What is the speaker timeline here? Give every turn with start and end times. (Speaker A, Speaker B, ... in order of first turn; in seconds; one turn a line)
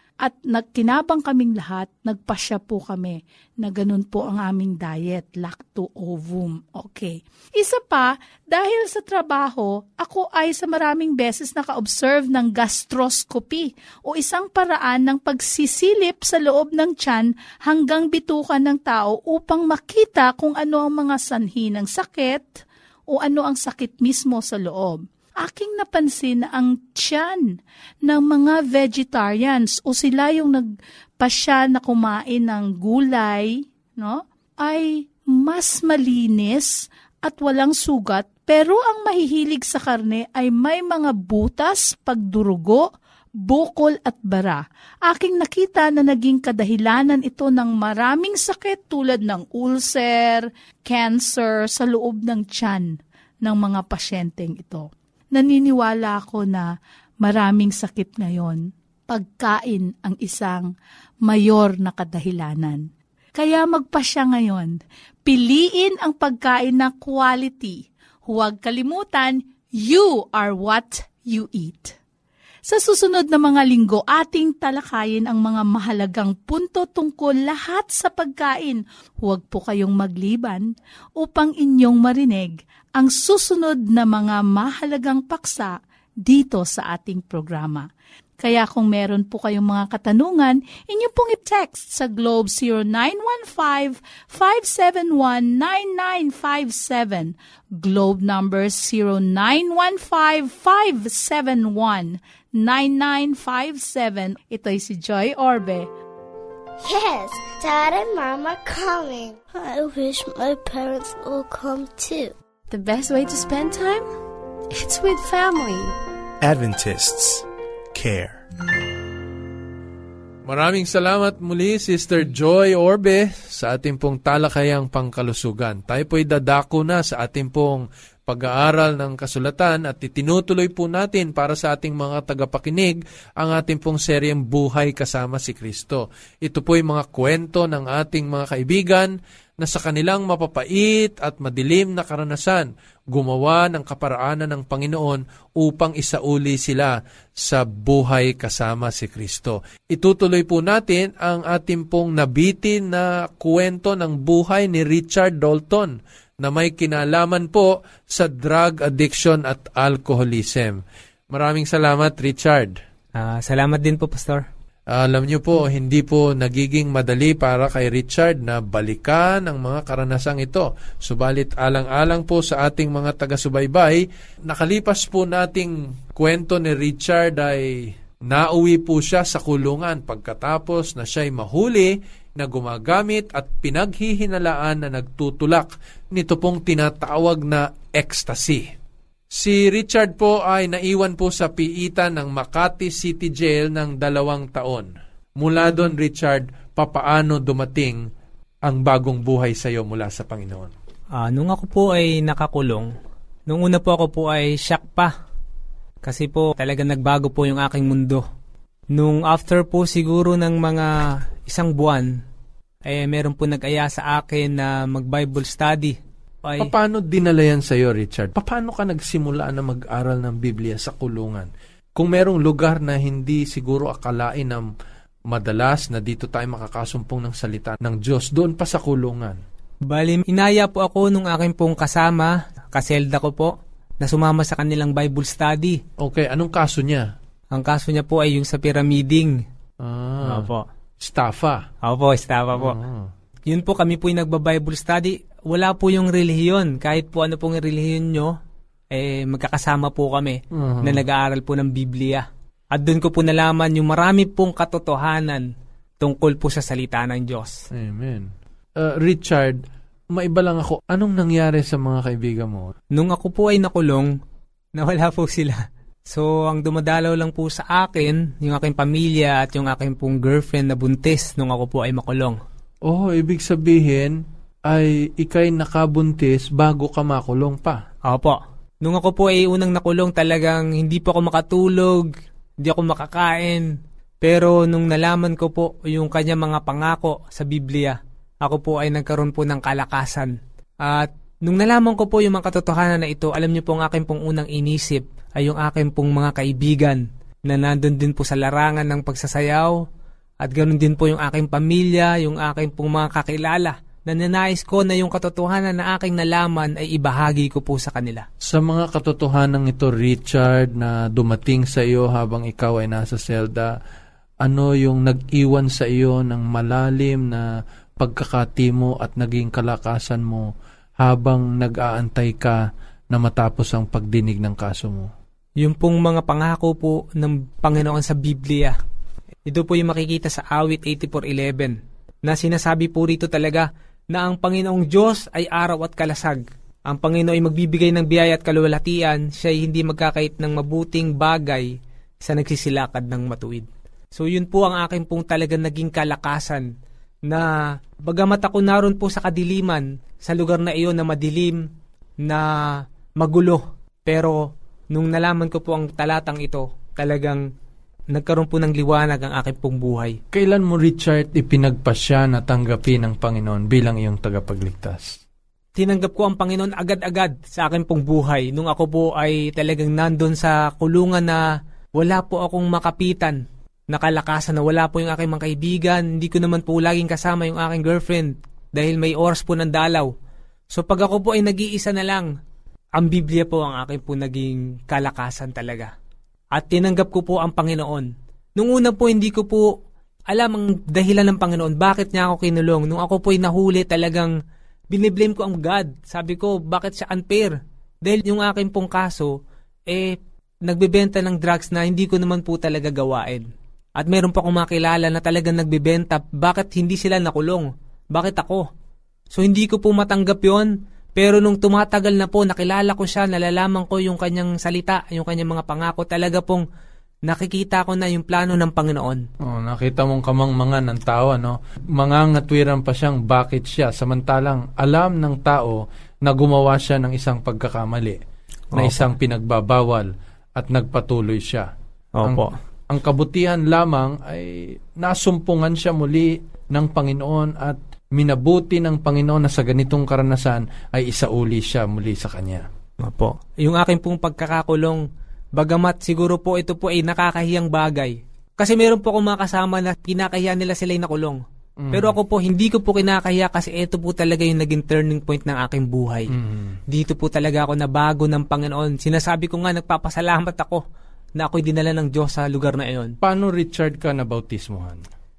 Speaker A: 0.2-27.4
Speaker A: 28.1-30.7
Speaker A: 31.2-42.9
Speaker A: 43.4-52.9
Speaker A: 53.4-56.7
Speaker A: 57.2-60.7
Speaker A: 61.2-62.8
Speaker A: 63.4-64.7
Speaker A: 65.2-71.9
Speaker A: 72.7-80.7
Speaker A: 81.2-85.7
Speaker A: 86.2-87.8
Speaker A: 88.4-105.9
Speaker B: 106.8-112.3
Speaker C: 112.8-114.0
Speaker A: 113.3-113.8
Speaker A: 114.8-115.8
Speaker C: 114.9-115.8
Speaker D: 116.4-118.4
Speaker E: 120.5-162.8
Speaker F: 163.2-164.4
Speaker E: 164.9-177.7
Speaker E: 178.2-188.7
Speaker E: 189.3-198.0
Speaker E: 198.6-200.7
Speaker F: 201.2-202.9
Speaker F: 203.5-205.1
Speaker F: 206.0-208.2
Speaker F: 208.9-212.2
Speaker F: 212.8-216.7
Speaker E: 216.6-224.7
Speaker E: 225.3-229.4
Speaker F: 229.9-235.8
Speaker E: 236.0-237.1
Speaker F: 237.5-239.4
Speaker E: 239.8-241.7
Speaker F: 240.2-240.7
Speaker F: 241.8-242.8
Speaker E: 242.5-243.1
Speaker F: 243.5-248.3
Speaker F: 248.9-255.5
Speaker E: 250.5-251.0
Speaker F: 256.0-257.6
Speaker E: 257.7-262.7
Speaker F: 262.9-264.1
Speaker F: 264.8-272.4
Speaker E: 272.9-277.8
Speaker F: 278.1-299.8
Speaker F: 300.4-308.2
Speaker E: 308.4-313.7
Speaker E: 314.4-317.5
Speaker E: 318.0-325.1
Speaker F: 325.6-328.8
Speaker F: 329.5-346.7
Speaker F: 347.3-347.5
Speaker F: 348.0-351.6
Speaker F: 352.2-357.4
Speaker F: 358.1-360.2
Speaker E: 360.3-365.2
Speaker F: 365.8-371.4
Speaker F: 371.9-380.1
Speaker F: 380.7-382.3
Speaker F: 382.9-385.9
Speaker F: 386.5-389.7
Speaker F: 390.3-394.3
Speaker F: 394.9-403.4
Speaker F: 404.0-408.7
Speaker F: 409.3-416.6
Speaker F: 417.3-419.2
Speaker E: 419.4-428.2
Speaker F: 428.7-429.0
Speaker E: 428.7-431.7
Speaker F: 432.2-432.5
Speaker E: 432.2-442.6
Speaker F: 443.0-445.0
Speaker F: 445.6-451.4
Speaker E: 451.8-452.1
Speaker F: 451.9-456.3
Speaker E: 456.3-456.8
Speaker F: 456.9-460.8
Speaker F: 461.4-463.1
Speaker E: 463.2-465.0